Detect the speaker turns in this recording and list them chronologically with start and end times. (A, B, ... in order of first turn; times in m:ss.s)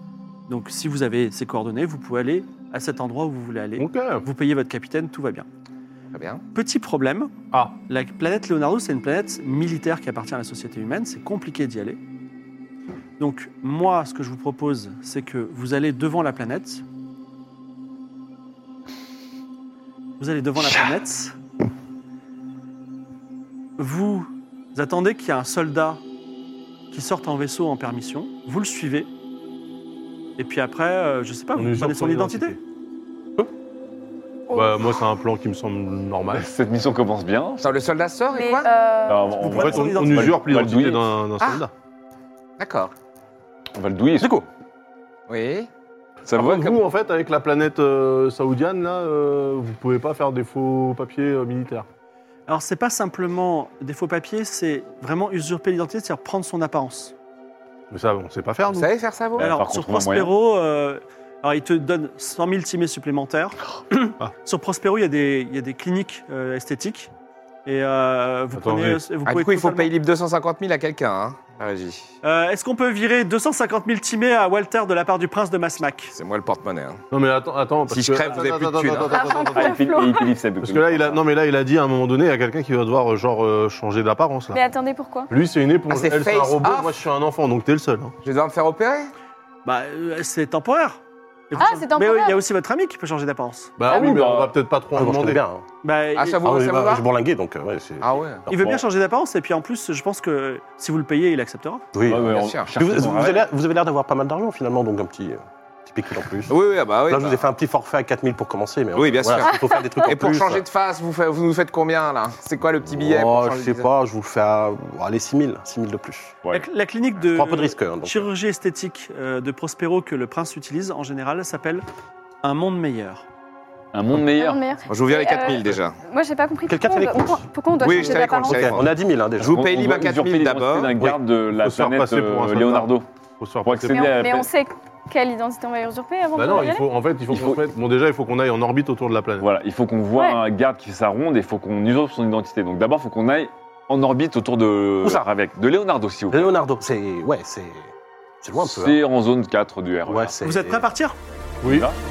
0:00.5-0:05.5 A
0:03.8-0:04.2 B
0:06.1-0:06.4 C
0:06.5-0:12.0 A
0:13.2-0:16.8 A
0:20.2-0:21.4 A
0:23.8-0:26.0 A
0:26.9-0:29.1 A
0:30.4-0:32.6 A
0:31.6-0:32.6 B
0:34.5-0:34.8 D
0:34.5-0:36.5 B
0:36.3-0:37.7 E
0:37.6-0:38.7 C
0:38.3-0:39.4 D
0:39.1-0:41.1 E
0:39.4-0:40.6 A
0:39.5-0:41.7 B
0:42.6-0:42.9 C
0:43.7-0:44.5 E
0:45.3-0:45.7 C
0:46.3-0:46.8 E
0:46.3-0:51.9 B
0:52.5-0:57.1 A
0:57.9-0:58.9 B
0:58.7-0:59.5 C
0:59.4-1:00.3 E
0:59.4-1:07.1 A
1:07.6-1:09.9 A
1:08.5-1:09.0 B
1:09.2-1:12.2 C
1:12.2-1:16.1 A
1:16.2-1:17.0 C
1:17.1-1:19.8 B
1:17.9-1:19.3 C
1:19.1-1:20.3 D
1:19.4-1:21.2 E
1:20.6-1:24.6 B
1:24.5-1:25.3 D
1:25.3-1:28.1 B
1:25.9-1:27.0 C
1:28.2-1:29.1 C
1:29.6-1:33.8 A
1:31.6-1:32.4 D
1:33.8-1:35.4 B
1:33.9-1:34.5 E
1:35.0-1:35.6 F
1:35.8-1:36.4 A
1:36.2-1:37.1 C
1:36.4-1:38.8 F
1:38.0-1:38.5 C
1:38.5-1:41.8 A
1:41.9-1:46.6 F
1:42.1-1:43.5 E
1:42.2-1:42.7 C
1:46.5-1:47.5 C
1:47.1-1:50.6 F
1:48.9-1:53.9 C
1:52.9-1:56.4 F
1:56.5-2:01.8 A
1:57.3-1:58.3 F
2:02.4-2:03.2 A
2:03.9-2:04.6 E
2:04.4-2:08.8 D
2:04.9-2:06.0 C
2:06.7-2:09.6 F
2:07.8-2:11.0 C
2:09.4-2:13.1 E
2:11.6-2:14.2 B
2:13.6-2:14.5 E
2:13.9-2:16.9 D
2:16.4-2:19.5 B
2:17.3-2:17.6 E
2:19.4-2:26.6 E
2:25.0-2:25.3 F
2:26.3-2:29.0 F
2:28.6-2:30.4 E
2:30.1-2:30.9 F
2:30.4-2:31.2 A
2:31.6-2:31.9 B
2:31.6-2:32.0 E